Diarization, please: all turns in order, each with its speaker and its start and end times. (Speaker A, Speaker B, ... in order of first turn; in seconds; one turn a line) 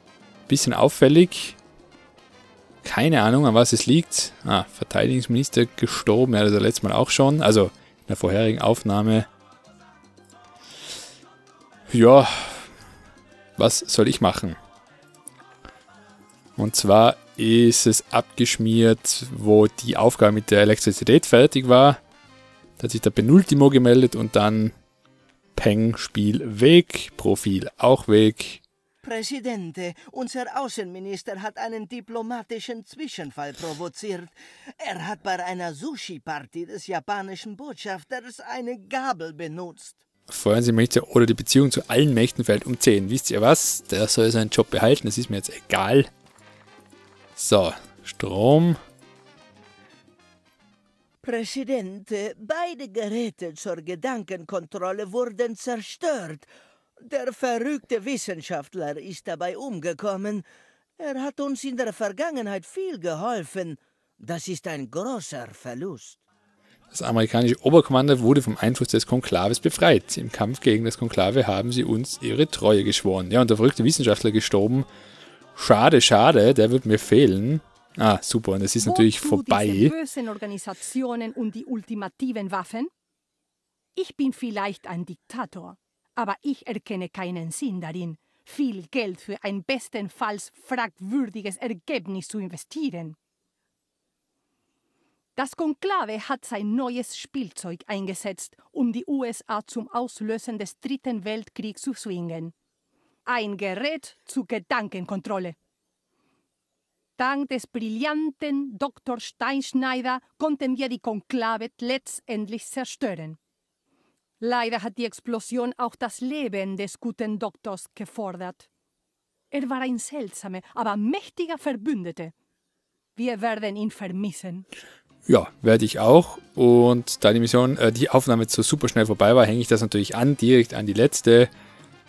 Speaker A: 0.5-1.6
Speaker A: 2.8-9.3
Speaker A: 11.9-12.7
Speaker A: 13.6-14.6
Speaker A: 16.6-22.0
Speaker A: 22.8-24.8
Speaker A: 25.6-28.6
Speaker B: 29.0-40.0
Speaker A: 40.3-46.1
Speaker A: 47.4-48.8
Speaker B: 51.2-60.5
Speaker B: 61.0-66.2
Speaker A: 66.9-74.9
Speaker A: 75.6-80.0
Speaker C: 78.8-82.9
Speaker C: 84.0-93.2
Speaker C: 95.4-102.5
Speaker C: 103.3-105.6
Speaker C: 107.2-113.4
Speaker C: 114.4-118.7
Speaker C: 119.5-122.3
Speaker C: 123.2-124.7
Speaker A: 125.3-131.5